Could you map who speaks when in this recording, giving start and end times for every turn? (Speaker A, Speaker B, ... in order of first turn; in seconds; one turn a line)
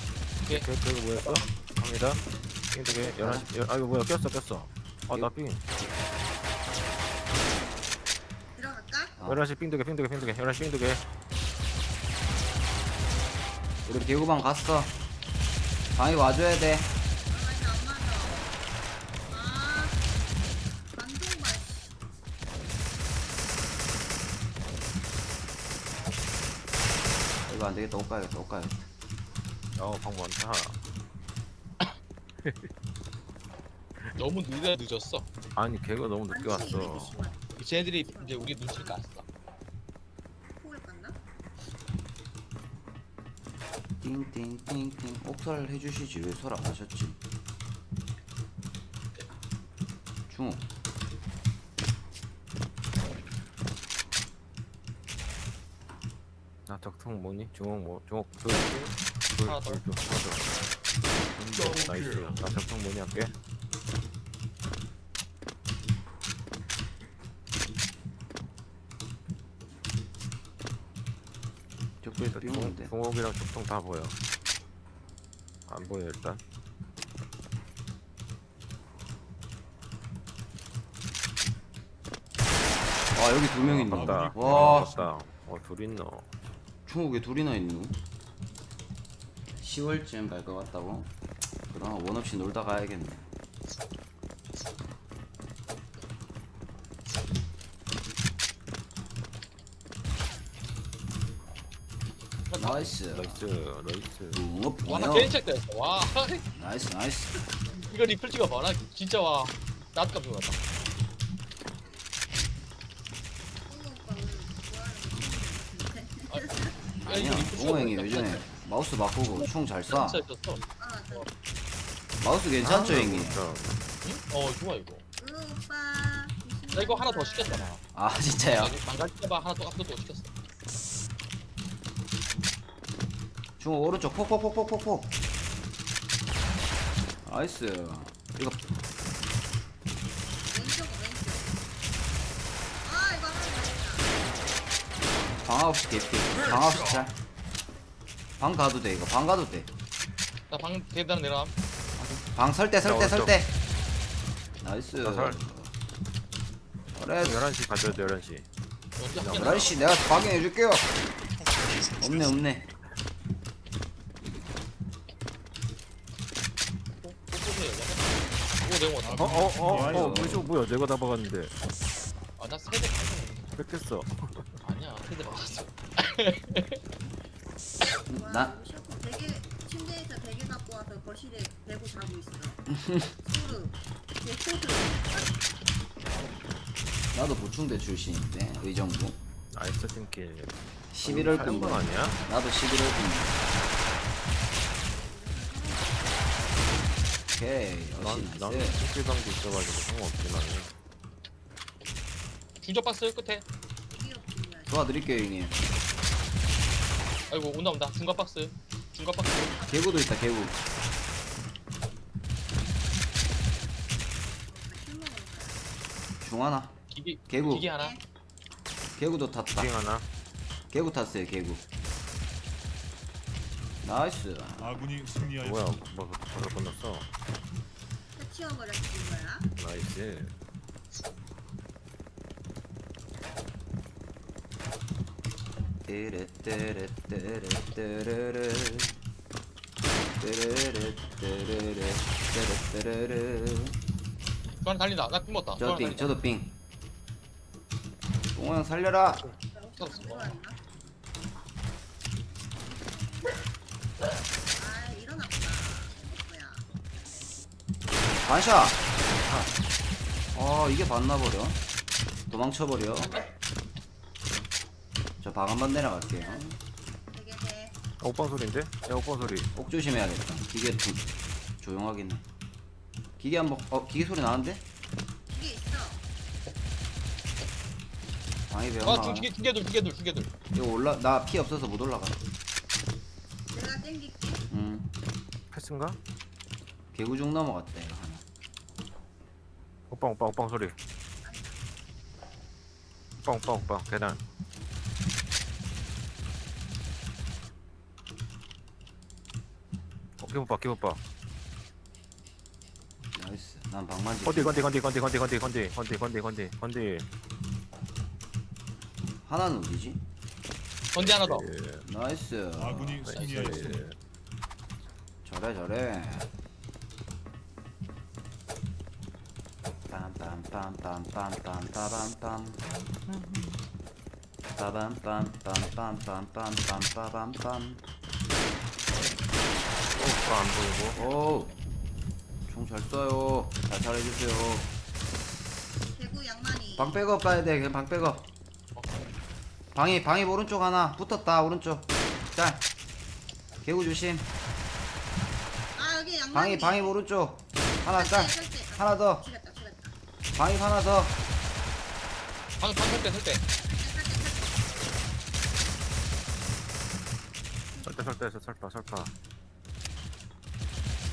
Speaker A: 0.5-2.2
Speaker A: 2.7-5.6
Speaker B: 3.1-3.5
Speaker C: 8.6-9.2
Speaker B: 9.2-9.4
Speaker A: 9.2-11.0
Speaker B: 13.9-14.9
Speaker B: 15.9-16.9
Speaker C: 17.3-18.6
Speaker C: 19.3-20.0
Speaker C: 20.9-21.9
Speaker B: 27.5-28.8
Speaker A: 29.8-30.8
Speaker A: 32.4-32.7
Speaker D: 34.0-35.3
Speaker A: 35.5-37.2
Speaker C: 36.3-39.0
Speaker D: 37.5-39.2
Speaker C: 40.6-41.2
Speaker B: 44.0-47.2
Speaker B: 50.3-50.6
Speaker A: 56.7-58.8
Speaker D: 58.5-59.8
Speaker A: 59.3-60.5
Speaker A: 61.3-63.3
Speaker B: 72.0-72.9
Speaker A: 72.2-74.2
Speaker A: 75.7-76.4
Speaker B: 83.1-84.9
Speaker A: 83.6-86.3
Speaker E: 83.9-85.0
Speaker B: 86.8-88.0
Speaker B: 89.6-91.1
Speaker B: 91.7-93.3
Speaker D: 102.5-103.0
Speaker B: 102.6-103.4
Speaker A: 103.1-104.4
Speaker B: 104.3-105.3
Speaker D: 104.8-106.5
Speaker B: 106.5-107.4
Speaker D: 107.8-110.6
Speaker C: 113.7-117.0
Speaker D: 117.0-118.4
Speaker B: 117.0-120.2
Speaker D: 119.3-121.3
Speaker C: 120.8-121.5
Speaker B: 122.2-123.4
Speaker A: 122.6-123.8
Speaker D: 124.0-125.0
Speaker C: 125.2-127.8
Speaker D: 126.7-127.8
Speaker B: 127.9-128.8
Speaker D: 128.5-130.3
Speaker B: 133.6-135.1
Speaker B: 137.2-138.6
Speaker C: 140.5-141.5
Speaker C: 142.8-144.2
Speaker B: 145.4-147.1
Speaker B: 148.4-149.7
Speaker D: 150.5-151.5
Speaker B: 152.0-153.5
Speaker A: 152.8-153.3
Speaker B: 154.6-155.7
Speaker A: 155.0-155.4
Speaker B: 156.9-157.5
Speaker A: 157.2-158.4
Speaker D: 159.0-160.0
Speaker A: 159.2-159.6
Speaker B: 159.3-160.9
Speaker E: 161.4-162.5
Speaker B: 162.0-162.7
Speaker D: 167.0-169.4
Speaker E: 169.0-170.1
Speaker A: 169.1-171.5
Speaker B: 169.7-170.5
Speaker D: 172.4-173.5
Speaker A: 173.6-174.5
Speaker D: 174.6-176.8
Speaker B: 178.1-178.5
Speaker C: 178.1-185.4
Speaker B: 187.1-189.2
Speaker A: 189.5-192.2
Speaker B: 190.9-193.4
Speaker C: 191.3-192.3
Speaker C: 194.8-196.9
Speaker B: 197.3-198.8
Speaker A: 198.0-200.7
Speaker D: 202.6-203.4
Speaker C: 203.9-205.5
Speaker B: 204.7-205.6
Speaker D: 207.3-209.6
Speaker C: 209.4-210.2
Speaker B: 209.7-210.6
Speaker C: 214.5-215.7
Speaker B: 216.2-216.7
Speaker D: 216.9-218.0
Speaker B: 217.3-217.7
Speaker C: 217.7-218.0
Speaker B: 219.0-219.7
Speaker A: 219.5-220.1
Speaker B: 220.7-221.6
Speaker B: 223.8-224.8
Speaker E: 224.6-225.8
Speaker A: 225.4-227.1
Speaker C: 228.2-229.5
Speaker A: 229.6-230.3
Speaker B: 235.9-238.9
Speaker B: 240.2-243.8
Speaker D: 244.6-246.2
Speaker B: 245.6-246.5
Speaker B: 248.3-249.2
Speaker D: 249.1-250.4
Speaker C: 249.4-250.6
Speaker C: 252.5-253.5
Speaker C: 254.5-256.8
Speaker B: 258.1-258.8
Speaker A: 259.2-259.5
Speaker B: 260.3-261.6
Speaker B: 262.3-263.2
Speaker D: 263.0-263.3
Speaker B: 265.2-266.6
Speaker C: 266.1-266.6
Speaker C: 267.1-267.7
Speaker A: 268.0-269.5
Speaker B: 269.5-271.1
Speaker B: 271.6-272.2
Speaker B: 273.2-274.6
Speaker C: 275.3-276.0
Speaker B: 278.5-279.3
Speaker D: 278.8-280.3
Speaker B: 280.5-282.1
Speaker C: 283.5-284.4
Speaker B: 284.5-284.9
Speaker A: 285.5-286.0
Speaker B: 286.9-288.2
Speaker A: 289.9-290.8
Speaker C: 291.2-291.6
Speaker A: 293.2-294.2
Speaker A: 300.2-301.0
Speaker B: 303.1-304.7
Speaker A: 304.2-307.1
Speaker B: 309.2-310.0
Speaker D: 310.9-311.5
Speaker A: 311.0-311.8
Speaker B: 311.8-313.3
Speaker E: 312.5-313.9
Speaker A: 313.0-313.9
Speaker D: 313.1-313.5
Speaker B: 315.2-316.3
Speaker B: 319.9-322.6
Speaker A: 322.8-323.6
Speaker B: 324.5-327.8
Speaker A: 329.9-331.0
Speaker B: 330.9-331.5
Speaker B: 332.5-334.7
Speaker C: 335.9-337.0
Speaker B: 336.8-338.2
Speaker D: 338.7-339.0
Speaker B: 339.7-342.6
Speaker B: 343.6-344.2
Speaker C: 345.7-347.0
Speaker B: 346.3-349.2
Speaker C: 347.9-349.9
Speaker B: 350.4-351.1
Speaker D: 352.6-353.4
Speaker C: 353.5-354.7
Speaker C: 357.7-358.2
Speaker A: 357.8-359.1